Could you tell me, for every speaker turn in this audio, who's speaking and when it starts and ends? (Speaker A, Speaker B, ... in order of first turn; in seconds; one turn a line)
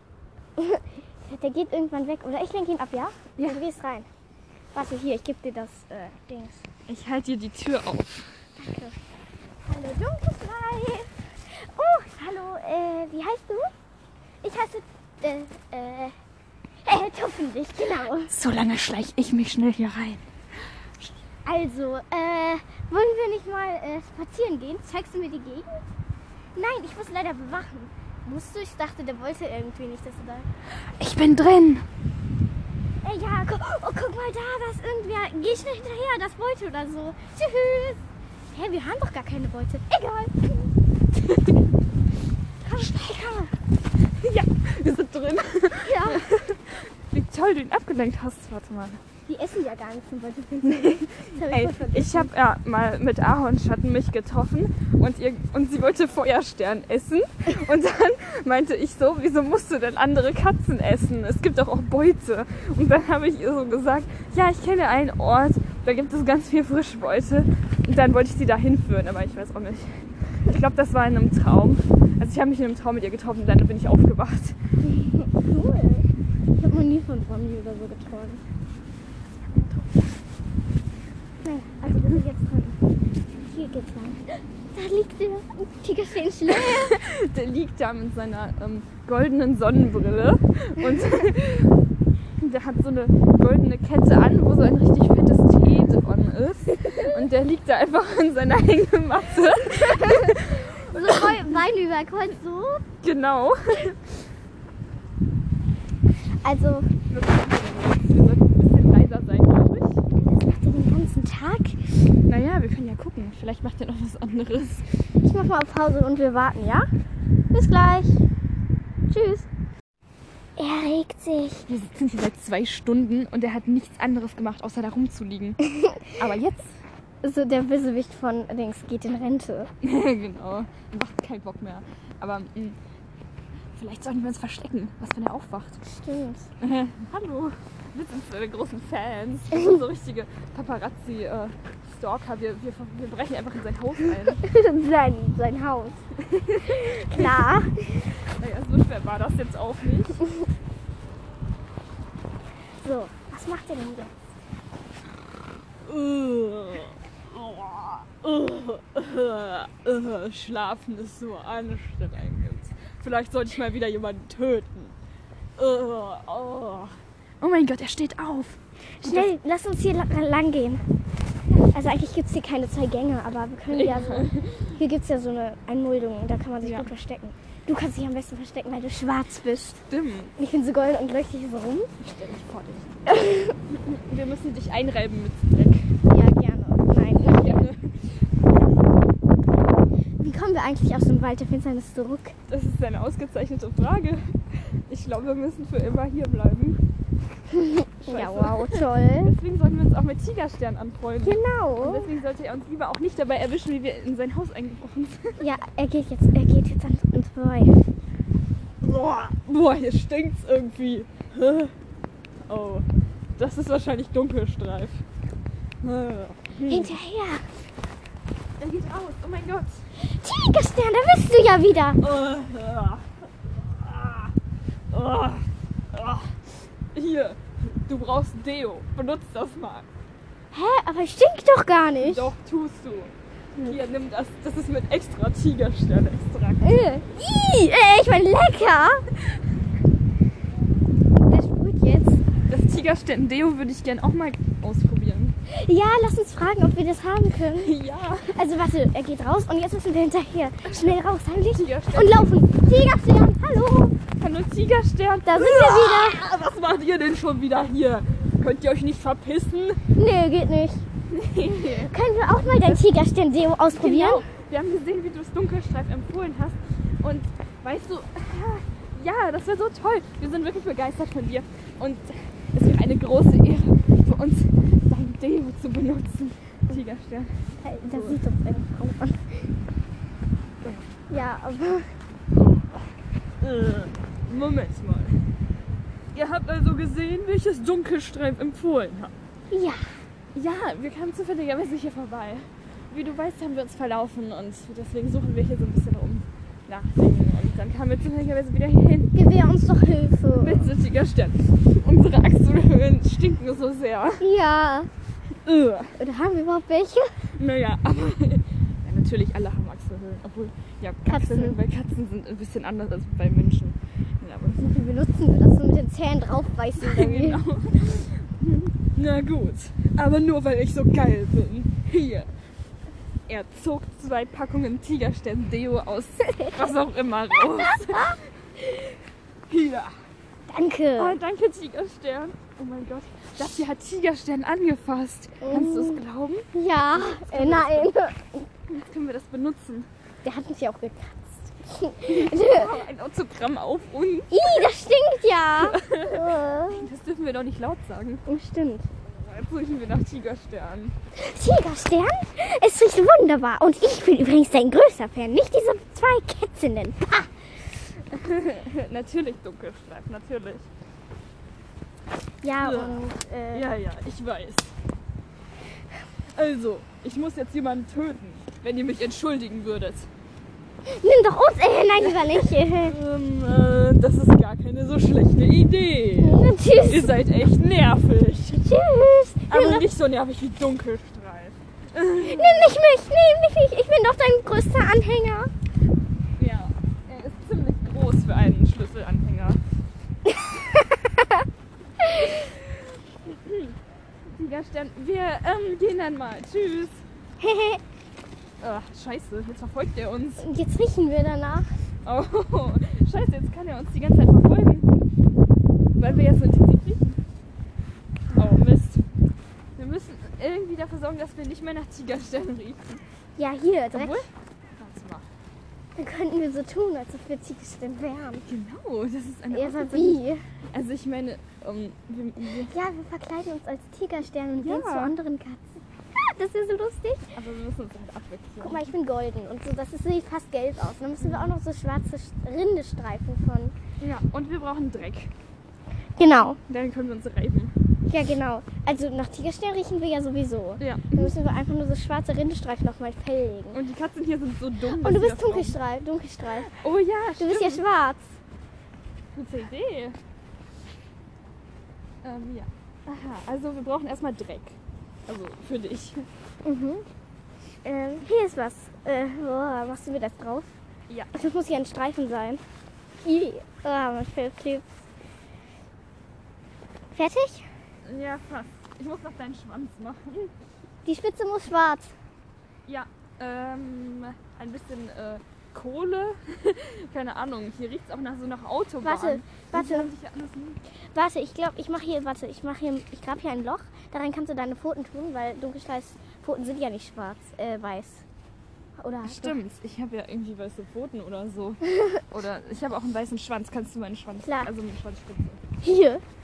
Speaker A: 0.6-4.1
Speaker A: 4.7-6.6
Speaker B: 6.9-8.3
Speaker A: 8.6-8.9
Speaker A: 9.6-13.7
Speaker A: 14.4-16.1
Speaker A: 16.8-18.3
Speaker B: 18.3-20.2
Speaker A: 21.4-25.8
Speaker A: 26.5-30.5
Speaker B: 31.0-31.8
Speaker A: 33.0-38.0
Speaker A: 38.5-40.7
Speaker B: 41.1-41.5
Speaker A: 42.6-43.5
Speaker B: 42.7-43.3
Speaker B: 44.2-49.0
Speaker A: 45.8-46.3
Speaker A: 49.2-52.3
Speaker B: 50.6-74.6
Speaker A: 74.8-76.0
Speaker A: 76.6-78.4
Speaker B: 79.5-80.1
Speaker A: 81.4-82.8
Speaker B: 81.9-82.2
Speaker A: 83.5-84.2
Speaker A: 84.7-86.9
Speaker B: 86.5-91.7
Speaker B: 92.4-101.6
Speaker A: 99.8-102.8
Speaker B: 103.0-104.0
Speaker A: 106.4-106.9
Speaker B: 107.1-110.0
Speaker A: 110.2-111.8
Speaker B: 112.3-114.8
Speaker A: 115.2-116.9
Speaker A: 117.5-118.2
Speaker A: 119.1-119.5
Speaker A: 120.6-121.7
Speaker B: 121.7-125.6
Speaker A: 125.6-126.2
Speaker B: 126.2-126.8
Speaker A: 127.2-129.7
Speaker B: 129.8-132.8
Speaker B: 133.7-135.8
Speaker A: 135.8-136.5
Speaker B: 136.6-144.4
Speaker A: 144.4-146.0
Speaker B: 146.2-147.5
Speaker A: 146.9-147.8
Speaker B: 148.4-150.3
Speaker A: 152.8-154.1
Speaker B: 155.8-164.9
Speaker B: 165.6-169.3
Speaker A: 169.0-170.8
Speaker A: 171.7-179.8
Speaker B: 173.7-174.6
Speaker B: 176.6-176.9
Speaker B: 179.9-180.3
Speaker A: 180.4-181.9
Speaker B: 182.0-183.1
Speaker A: 183.1-183.6
Speaker B: 183.7-185.9
Speaker A: 186.1-187.6
Speaker B: 187.1-188.3
Speaker A: 190.2-192.3
Speaker B: 192.5-196.8
Speaker A: 197.5-199.3
Speaker B: 198.1-205.4
Speaker A: 201.2-202.1
Speaker A: 205.4-207.8
Speaker B: 208.8-211.7
Speaker B: 212.5-212.8
Speaker B: 213.4-215.0
Speaker B: 215.8-217.0
Speaker A: 216.7-217.4
Speaker B: 218.6-219.8
Speaker A: 220.0-222.0
Speaker B: 222.0-224.3
Speaker B: 224.9-226.3
Speaker B: 226.9-229.9
Speaker A: 230.5-232.3
Speaker B: 232.0-236.8
Speaker A: 236.6-239.1
Speaker A: 241.2-242.2
Speaker B: 242.5-245.3
Speaker A: 245.5-247.7
Speaker B: 247.6-248.3
Speaker A: 248.3-253.9
Speaker B: 250.7-250.9
Speaker B: 251.5-252.3
Speaker B: 254.2-259.8
Speaker A: 255.2-256.2
Speaker A: 260.0-260.8
Speaker B: 261.1-262.8
Speaker A: 261.8-264.2
Speaker B: 263.7-278.2
Speaker A: 277.6-279.5
Speaker B: 280.6-280.9
Speaker A: 281.1-281.9
Speaker B: 282.4-282.6
Speaker B: 283.4-285.2
Speaker B: 286.1-289.1
Speaker A: 289.5-289.9
Speaker B: 290.3-299.1
Speaker A: 299.1-300.7
Speaker B: 300.3-304.2
Speaker A: 304.2-304.9
Speaker B: 305.4-305.9
Speaker A: 306.0-307.1
Speaker B: 307.4-314.8
Speaker A: 311.1-311.6
Speaker A: 314.6-317.4
Speaker B: 316.8-322.3
Speaker B: 323.3-328.6
Speaker A: 327.7-328.1
Speaker B: 329.5-329.9
Speaker A: 330.5-331.2
Speaker B: 331.0-337.9
Speaker A: 335.4-336.0
Speaker A: 336.5-338.4
Speaker B: 338.7-339.9
Speaker A: 340.2-342.8
Speaker B: 342.1-344.7
Speaker A: 344.3-346.9
Speaker B: 345.6-348.2
Speaker A: 348.3-348.9
Speaker B: 349.1-350.9
Speaker A: 351.2-357.3
Speaker B: 358.1-360.7
Speaker A: 362.4-363.7
Speaker B: 362.6-364.7
Speaker B: 366.3-370.1
Speaker A: 370.9-372.9
Speaker B: 372.0-378.6
Speaker A: 376.2-377.1
Speaker A: 378.5-379.9
Speaker B: 379.5-382.7
Speaker A: 382.2-385.5
Speaker B: 386.4-389.6
Speaker A: 390.3-391.4
Speaker A: 392.0-392.3
Speaker B: 393.2-393.7
Speaker B: 394.3-396.9
Speaker A: 397.4-397.8
Speaker B: 398.6-400.4
Speaker A: 400.4-401.7
Speaker B: 402.0-404.9
Speaker B: 406.0-407.2
Speaker B: 408.3-409.0
Speaker B: 409.8-413.0
Speaker A: 413.4-414.2
Speaker B: 413.9-414.3
Speaker B: 414.8-415.2
Speaker A: 416.0-418.5
Speaker B: 418.4-422.7
Speaker A: 419.5-420.4
Speaker A: 422.6-427.3
Speaker B: 424.6-425.1
Speaker B: 427.3-428.9
Speaker A: 428.6-433.7
Speaker B: 431.2-431.5
Speaker B: 434.0-435.3
Speaker A: 436.2-436.6
Speaker B: 436.7-437.7
Speaker A: 438.1-443.8
Speaker B: 440.8-441.3
Speaker B: 443.7-445.8
Speaker A: 445.0-446.7
Speaker B: 446.7-447.8
Speaker A: 447.4-448.4
Speaker B: 449.3-450.2
Speaker B: 452.2-456.2
Speaker A: 456.6-457.1
Speaker A: 457.8-460.7
Speaker A: 461.3-462.6
Speaker A: 463.2-464.8
Speaker A: 467.1-467.6
Speaker B: 468.0-470.5
Speaker A: 471.0-472.1
Speaker B: 472.9-480.8
Speaker A: 479.0-480.1
Speaker A: 481.1-488.2
Speaker A: 489.0-489.6
Speaker B: 489.2-495.6
Speaker A: 491.9-492.2
Speaker A: 494.4-494.7
Speaker A: 495.8-496.2